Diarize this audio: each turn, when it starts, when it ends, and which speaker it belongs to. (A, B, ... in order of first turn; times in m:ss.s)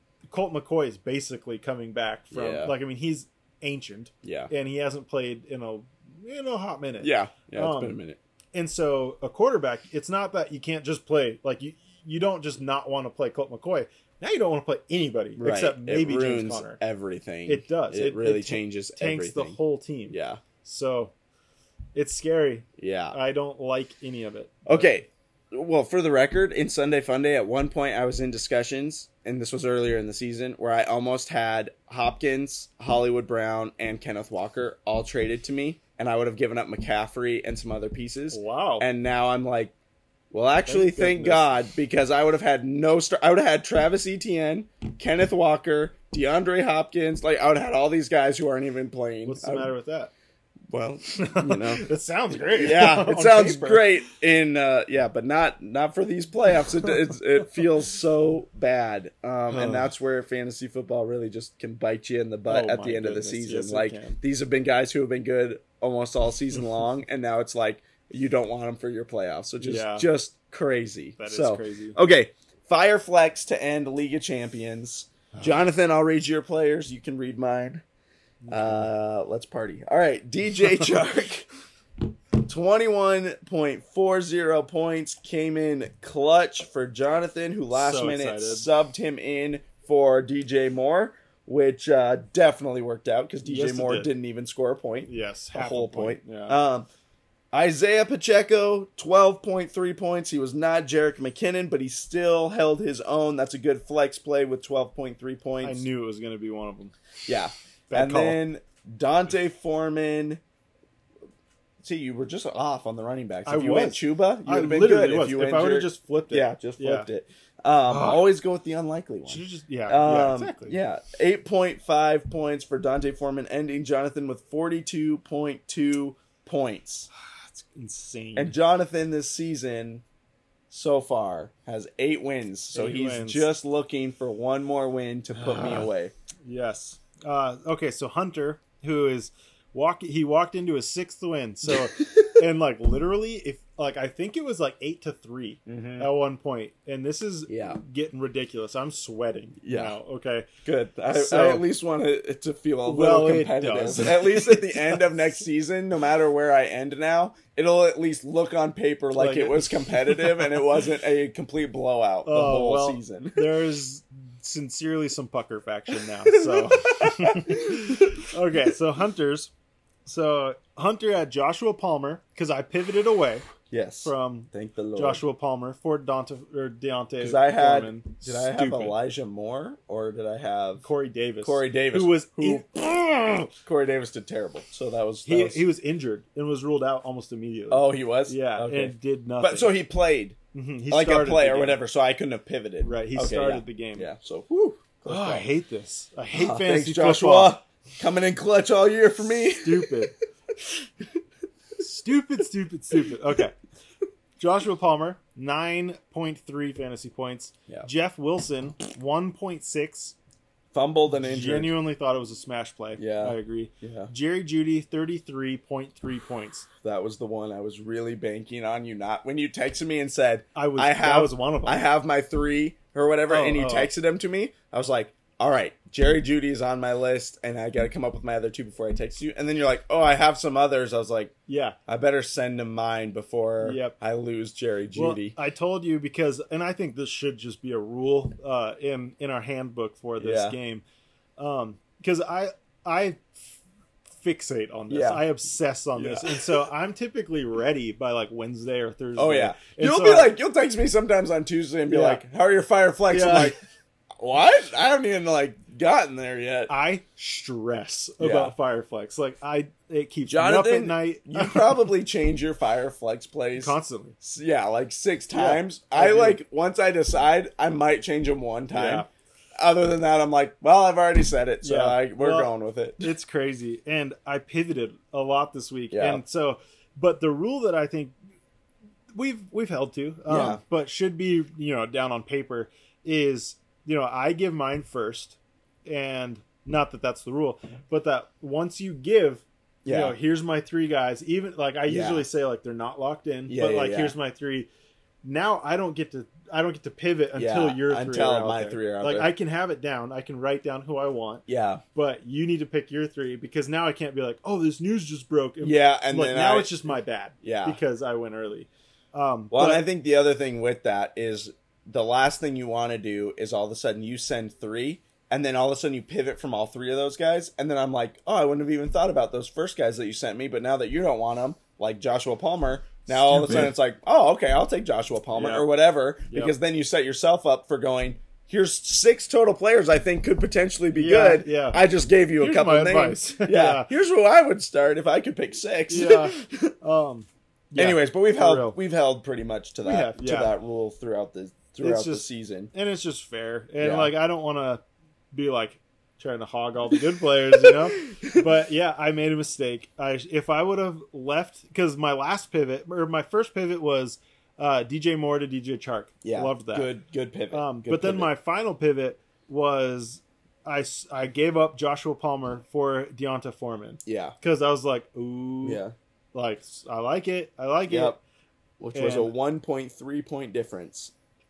0:00.3-0:08.0 A
0:02.3-0:02.8 B
0:04.2-0:04.5 B
0:07.0-0:08.2 B
0:08.5-0:16.8 A
0:15.4-0:19.6 B
0:17.4-0:21.1 A
0:20.1-0:20.4 B
0:21.9-0:24.9 A
0:22.8-0:23.2 B
0:24.6-0:39.7 B
0:38.3-0:38.8 A
0:40.3-0:49.7 B
0:40.6-0:41.5 A
0:49.2-0:50.1 A
0:50.7-0:51.8 B
0:51.2-0:53.9 A
0:52.5-1:17.8 B
0:59.5-0:59.9 A
1:02.5-1:04.2 A
1:09.6-1:10.1 A
1:11.2-1:12.0 A
1:18.4-1:18.9 A
1:18.5-1:21.5 B
1:22.4-1:36.9 B
1:27.7-1:28.7 A
1:33.4-1:34.1 A
1:35.0-1:36.6 A
1:37.5-1:45.8 B
1:45.6-1:46.9 A
1:47.2-1:50.4 B
1:47.9-1:48.4 A
1:51.8-2:07.1 B
1:53.4-1:57.1 A
1:57.9-1:58.2 A
1:59.2-2:00.8 A
2:07.2-2:08.5 A
2:08.4-2:10.0 B
2:10.7-2:16.1 B
2:12.7-2:13.5 A
2:15.3-2:15.9 A
2:16.4-2:30.5 A
2:22.0-2:22.3 B
2:25.6-2:26.1 B
2:27.5-2:27.8 B
2:29.6-2:30.0 B
2:30.6-2:43.6 B
2:31.1-2:31.7 A
2:32.8-2:35.1 A
2:39.1-2:40.6 A
2:42.2-2:49.5 A
2:46.2-2:48.1 B
2:50.0-2:53.4 A
2:53.7-2:55.2 B
2:54.0-2:59.0 A
2:57.2-3:00.8 B
3:00.8-3:02.6 A
3:01.4-3:05.6 B
3:05.2-3:09.7 A
3:07.7-3:10.4 B
3:10.5-3:11.8 A
3:10.9-3:15.5 B
3:12.8-3:14.1 A
3:15.0-3:17.6 A
3:16.3-3:20.1 B
3:19.6-3:20.1 A
3:21.8-3:23.5 A
3:24.4-3:30.1 A
3:30.7-3:31.7 B
3:31.1-3:36.6 A
3:33.0-3:34.1 B
3:36.8-3:51.3 B
3:40.5-3:41.9 A
3:43.3-3:43.9 A
3:51.5-3:51.8 A
3:51.9-3:55.4 B
3:53.6-3:54.0 A
3:54.9-4:00.8 A
4:00.2-4:00.6 B
4:01.4-4:03.6 A
4:04.1-4:10.3 A
4:04.9-4:05.2 B
4:06.0-4:06.6 B
4:09.2-4:13.6 B
4:11.9-4:12.2 A
4:13.1-4:13.6 A
4:14.2-4:16.7 B
4:16.7-4:21.8 A
4:18.2-4:18.5 B
4:20.3-4:33.1 B
4:23.6-4:24.2 A
4:25.3-4:26.4 A
4:28.7-4:29.1 A
4:31.6-4:38.1 A
4:35.9-4:36.2 B
4:39.1-4:54.7 A
4:40.3-4:40.6 B
4:49.8-4:50.2 B
4:51.8-4:52.3 B
4:53.5-4:54.1 B
4:55.2-5:01.4 A
4:57.4-4:59.3 B
5:01.5-5:01.8 B
5:01.9-5:09.8 A
5:05.6-5:06.8 B
5:07.4-5:07.8 B
5:09.5-5:36.7 B
5:23.1-5:23.7 A
5:25.3-5:25.7 A
5:26.3-5:26.5 A
5:30.9-5:31.8 A
5:32.4-5:33.9 A
5:35.9-5:38.8 A
5:37.8-5:42.7 B
5:39.8-5:40.5 A
5:41.8-5:44.8 A
5:43.8-5:44.1 B
5:45.3-5:56.9 A
5:56.2-5:58.3 B
5:57.5-6:05.8 A
6:04.0-6:04.3 B
6:05.6-6:05.9 B
6:06.3-6:08.2 A
6:07.9-6:08.2 B
6:08.8-6:11.1 B
6:08.9-6:09.3 A